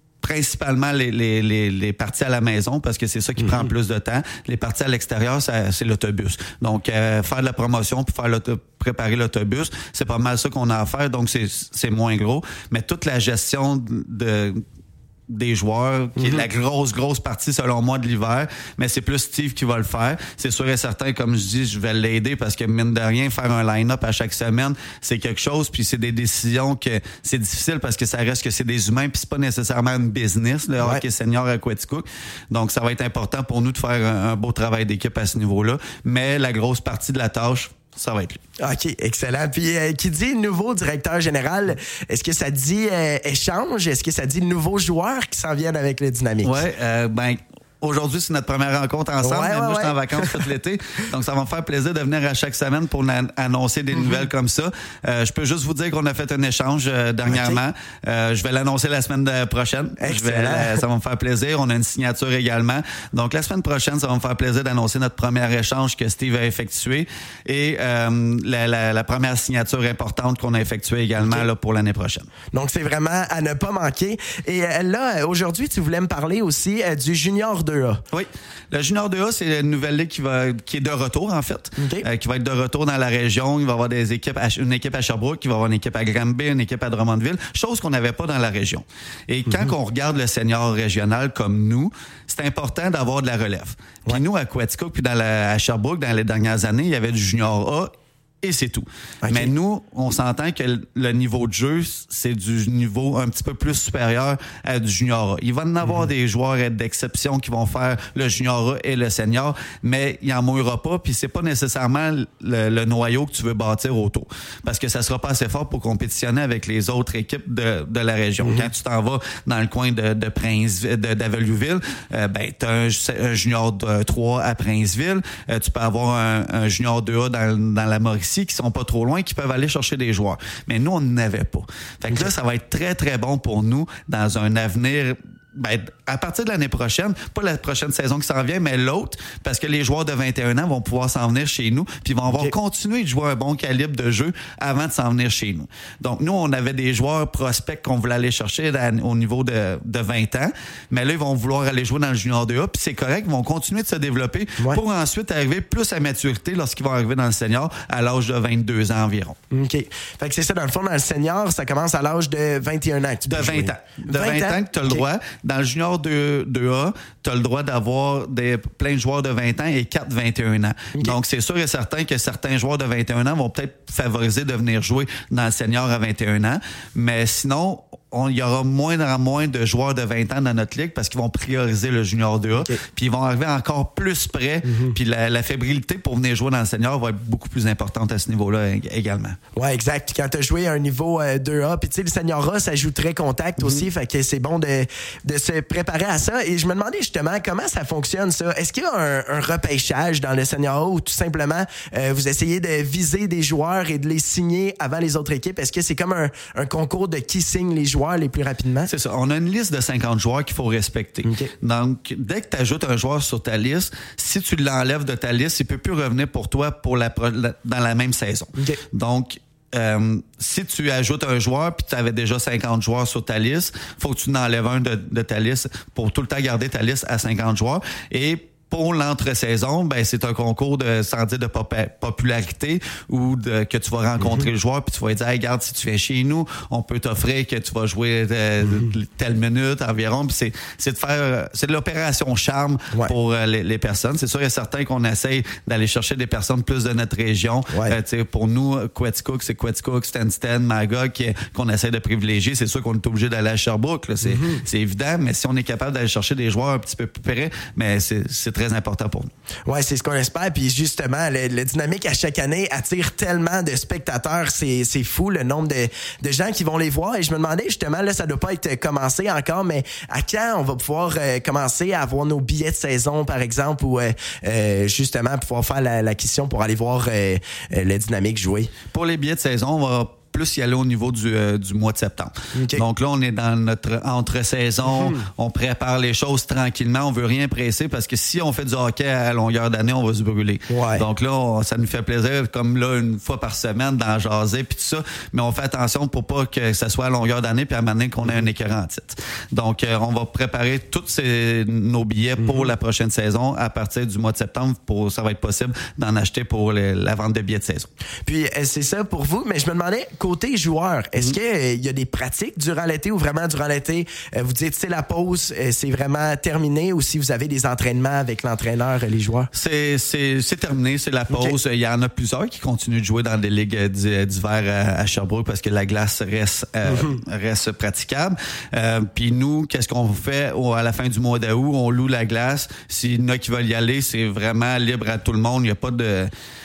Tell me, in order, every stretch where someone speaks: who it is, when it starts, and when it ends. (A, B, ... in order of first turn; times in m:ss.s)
0:00.2-0:14.6 A
0:15.3-0:38.4 A
0:16.2-0:16.4 B
0:38.6-0:46.5 B
0:46.4-1:12.3 A
0:49.2-0:50.4 B
0:57.3-0:57.6 B
1:00.0-1:00.8 B
1:11.2-1:11.4 B
1:12.5-1:18.0 B
1:18.1-1:37.9 A
1:21.8-1:22.0 B
1:38.4-2:39.3 A
1:39.2-1:39.5 B
1:58.4-1:58.7 B
2:22.3-2:22.5 B
2:39.5-2:45.0 B
2:43.2-3:09.4 A
3:04.6-3:05.0 B
3:09.6-3:28.9 B
3:13.6-3:13.8 A
3:28.9-4:19.3 A
3:31.2-3:31.5 B
3:54.2-3:54.5 B
4:14.2-4:14.6 B
4:19.7-4:38.7 B
4:38.9-5:07.9 A
4:42.5-4:42.8 B
4:44.8-4:45.2 B
4:50.7-4:51.0 B
5:02.4-5:02.7 B
5:08.2-5:19.5 B
5:19.5-5:36.3 A
5:21.3-5:21.6 B
5:26.8-5:27.1 B